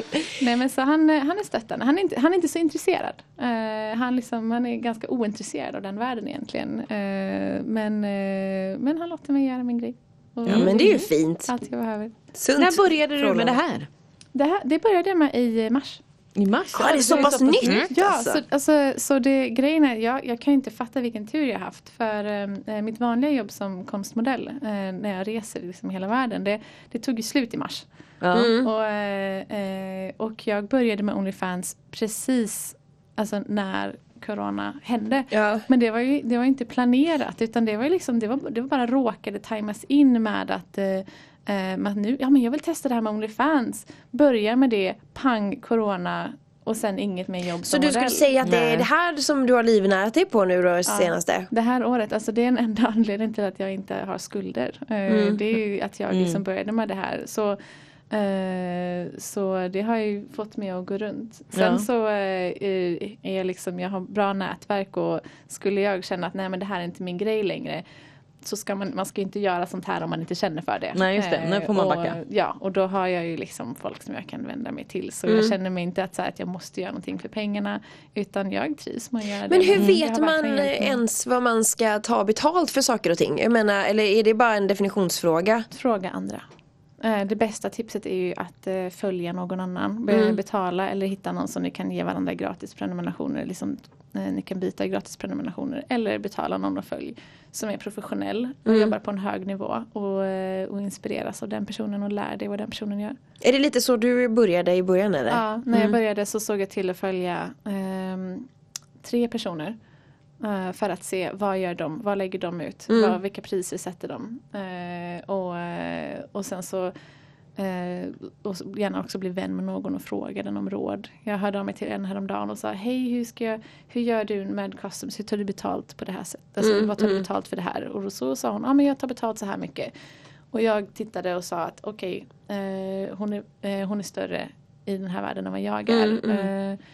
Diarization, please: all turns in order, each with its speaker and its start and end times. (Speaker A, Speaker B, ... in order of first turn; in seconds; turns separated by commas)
Speaker A: 0.4-12.1, Speaker B: 10.4-11.5, Speaker C: 10.5-10.8, Speaker B: 12.3-13.6, Speaker C: 12.6-13.9, Speaker A: 14.3-16.0, Speaker C: 16.4-17.8, Speaker B: 16.7-18.4, Speaker A: 16.8-27.8, Speaker C: 28.2-28.5, Speaker B: 28.3-28.7, Speaker A: 28.6-48.3, Speaker B: 35.3-35.6, Speaker B: 47.6-51.5, Speaker C: 48.4-48.9, Speaker A: 50.9-57.6, Speaker B: 55.1-55.4, Speaker C: 56.1-56.4, Speaker A: 58.1-67.8, Speaker C: 61.5-61.8, Speaker A: 68.4-81.0, Speaker C: 70.9-72.2, Speaker B: 79.5-85.7, Speaker A: 85.7-86.4, Speaker A: 87.0-103.2, Speaker B: 90.1-90.4, Speaker B: 98.7-98.9, Speaker B: 103.4-106.0, Speaker A: 105.3-108.5, Speaker A: 109.0-109.8, Speaker A: 110.4-116.9, Speaker B: 112.9-113.2, Speaker A: 117.6-129.9, Speaker B: 126.6-127.2, Speaker A: 130.5-136.8, Speaker B: 135.9-136.5